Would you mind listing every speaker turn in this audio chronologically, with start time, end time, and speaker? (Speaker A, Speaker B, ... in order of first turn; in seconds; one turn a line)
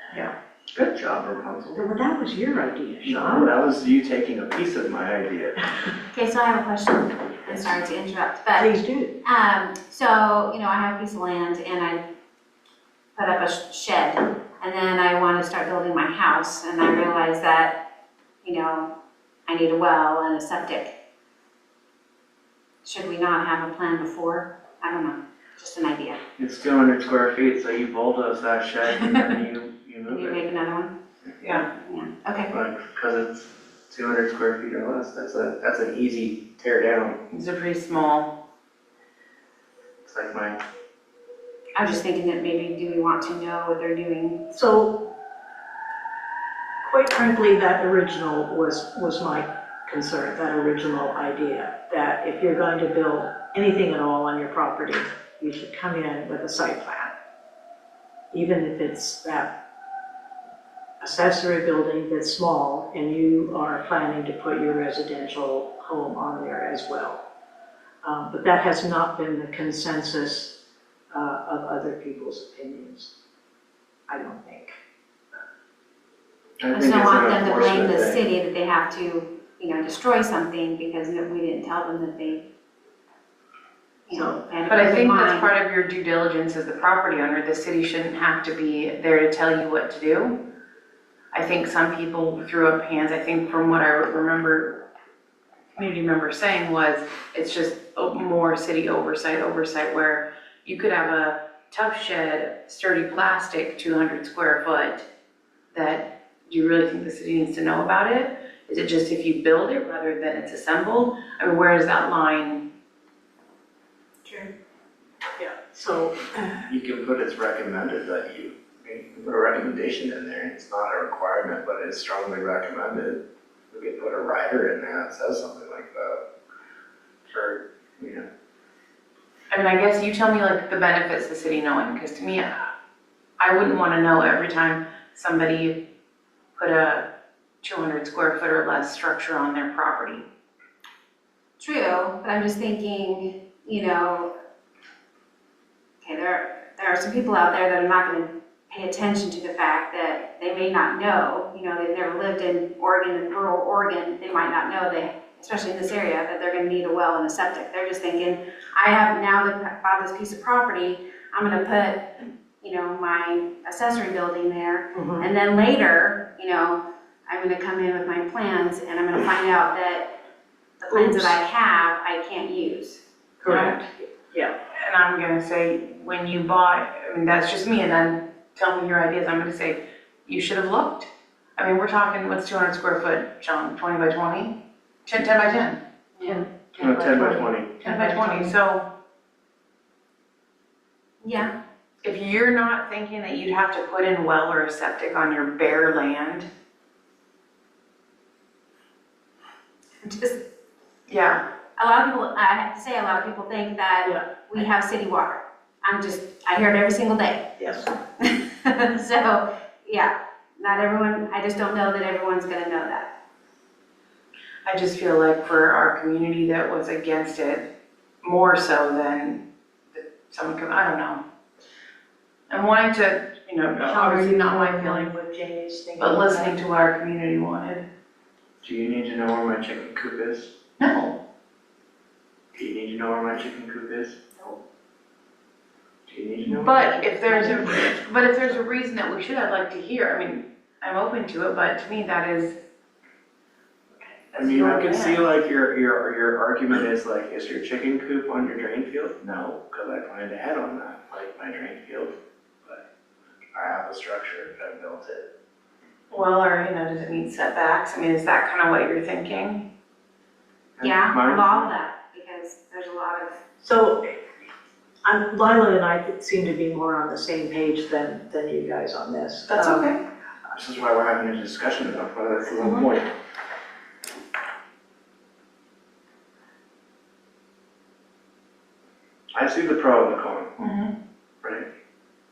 Speaker A: 0.7-1.9
Speaker B: 1.8-3.5
Speaker A: 3.0-5.7
Speaker C: 6.1-12.0
Speaker B: 8.6-9.2
Speaker C: 13.2-17.8
Speaker C: 18.4-18.9
Speaker C: 19.5-20.9
Speaker C: 22.8-26.2
Speaker A: 26.4-30.5
Speaker C: 30.1-30.9
Speaker D: 31.4-31.7
Speaker C: 31.5-32.5
Speaker A: 32.5-37.2
Speaker D: 37.3-38.4
Speaker A: 40.0-40.6
Speaker C: 41.7-44.4
Speaker B: 44.5-45.0
Speaker B: 46.8-57.1
Speaker B: 58.3-59.6
Speaker B: 61.0-67.2
Speaker B: 68.0-70.5
Speaker B: 71.1-73.2
Speaker B: 74.1-74.8
Speaker A: 76.6-78.3
Speaker C: 76.7-82.5
Speaker C: 84.1-85.5
Speaker D: 84.7-90.4
Speaker D: 91.3-94.8
Speaker D: 95.8-105.1
Speaker D: 105.7-112.7
Speaker B: 115.4-116.7
Speaker A: 116.7-126.2
Speaker A: 127.3-128.2
Speaker D: 129.5-132.5
Speaker D: 133.4-135.8
Speaker D: 136.6-137.1
Speaker D: 137.6-140.3
Speaker C: 141.6-144.3
Speaker C: 146.0-170.2
Speaker B: 164.9-165.3
Speaker C: 170.8-173.0
Speaker B: 170.9-171.4
Speaker B: 173.4-174.5
Speaker D: 173.5-173.9
Speaker D: 174.7-185.8
Speaker B: 186.2-188.5
Speaker A: 186.8-187.8
Speaker D: 187.8-188.9
Speaker C: 191.2-191.5
Speaker D: 192.0-196.5
Speaker C: 200.0-200.4
Speaker D: 201.1-201.4
Speaker C: 201.8-213.1
Speaker B: 204.0-204.4
Speaker B: 207.6-207.9
Speaker D: 214.6-217.7
Speaker D: 218.2-221.2
Speaker D: 222.5-225.2
Speaker B: 223.7-226.6
Speaker D: 226.0-227.8
Speaker A: 228.6-230.5
Speaker D: 230.8-231.2
Speaker A: 232.5-234.2
Speaker A: 236.1-236.8
Speaker D: 236.5-242.6
Speaker B: 237.0-238.3
Speaker D: 244.3-245.2
Speaker A: 244.3-252.8
Speaker A: 253.5-255.3
Speaker D: 256.1-259.7
Speaker A: 260.8-261.7
Speaker C: 260.8-263.4
Speaker B: 263.6-264.2
Speaker B: 265.1-269.9
Speaker D: 269.5-270.0
Speaker A: 270.5-273.1
Speaker D: 272.6-272.9
Speaker A: 279.3-280.5
Speaker D: 280.6-280.9
Speaker A: 281.4-281.7